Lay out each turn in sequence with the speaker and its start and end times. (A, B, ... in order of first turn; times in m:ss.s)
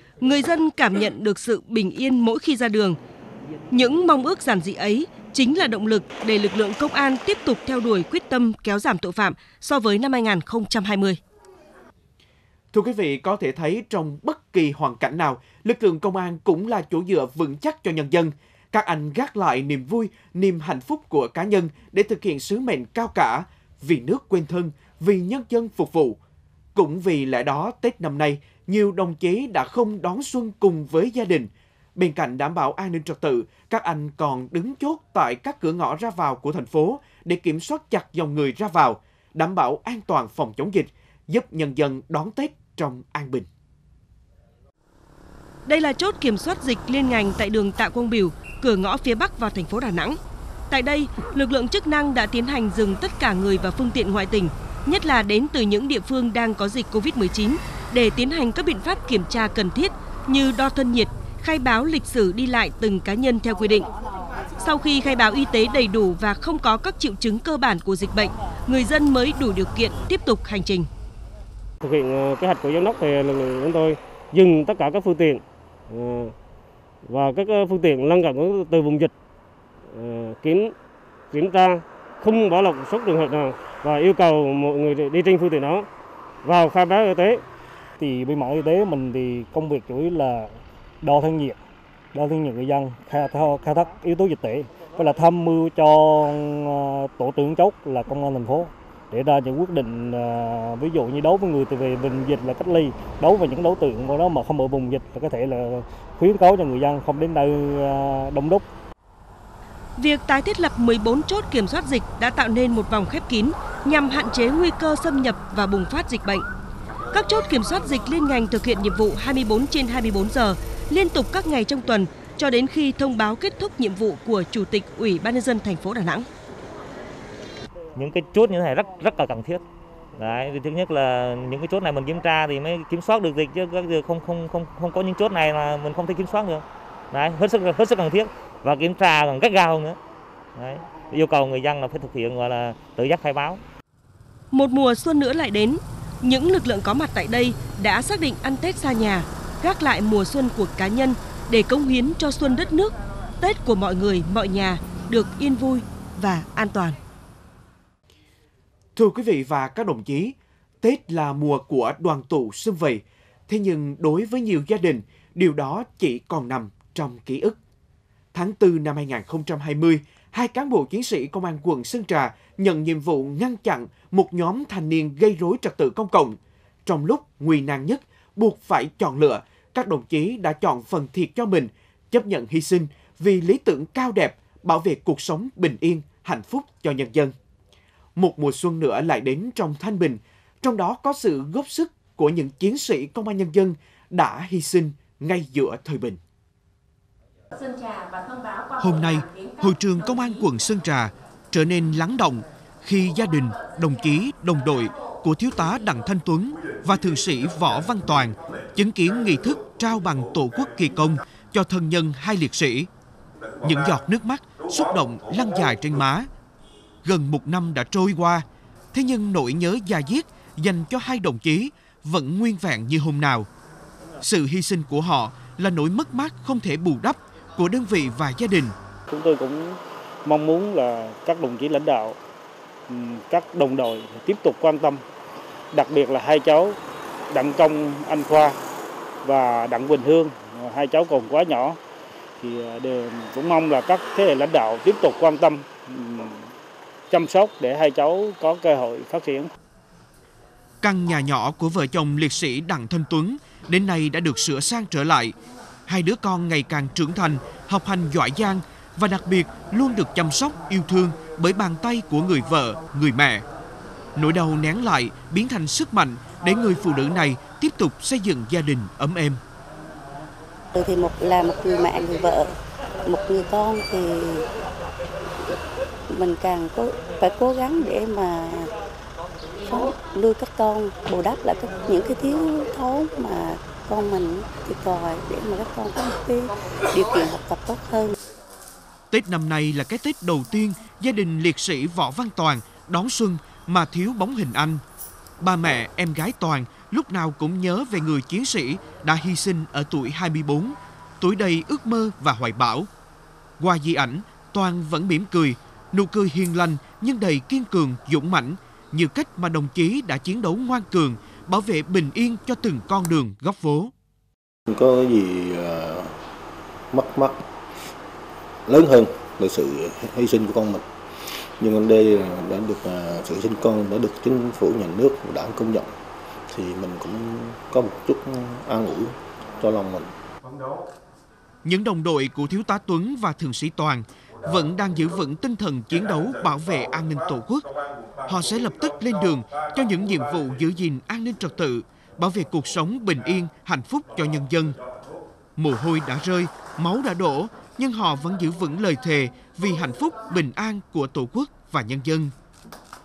0:00.2-0:03.0 A
0:03.7-0:11.2 A
0:12.7-0:26.2 B
0:26.7-0:43.5 B
0:45.6-0:50.2 A
0:50.7-1:03.9 A
1:04.6-1:10.9 A
1:11.8-1:16.3 C
1:17.0-1:19.1 C
1:19.9-1:20.7 C
1:21.3-1:25.9 C
1:26.4-1:27.4 C
1:28.0-1:31.6 D
1:32.1-1:48.6 D
1:50.0-1:56.4 A
1:57.1-2:06.3 A
2:07.9-2:09.6 E
2:10.1-2:20.0 E
2:20.6-2:23.6 E
2:24.5-2:37.0 A
2:39.0-2:47.6 B
2:48.3-3:07.3 B
3:08.2-3:16.2 B
3:18.8-3:32.9 B
3:33.6-3:36.3 B
3:37.0-3:43.5 B
3:44.2-3:48.7 B
3:49.1-3:52.1 C
3:52.9-3:55.0 C
3:55.7-3:56.7 C
3:57.3-3:58.5 C
3:59.2-4:01.8 C
4:02.4-4:06.1 C
4:07.1-4:09.4 C
4:10.8-4:15.3 B
4:15.9-4:23.4 B
4:24.2-4:29.4 B
4:30.7-4:32.5 F
4:33.0-4:34.4 F
4:36.1-4:38.7 F
4:39.7-4:48.1 F
4:49.1-4:54.8 B
4:55.4-5:02.9 B
5:03.6-5:13.9 B
5:14.7-5:16.1 G
5:16.9-5:17.5 G
5:18.6-5:20.8 G
5:21.4-5:25.9 G
5:26.5-5:30.1 G
5:31.6-5:37.7 B
5:38.2-5:44.8 B
5:45.6-5:52.3 B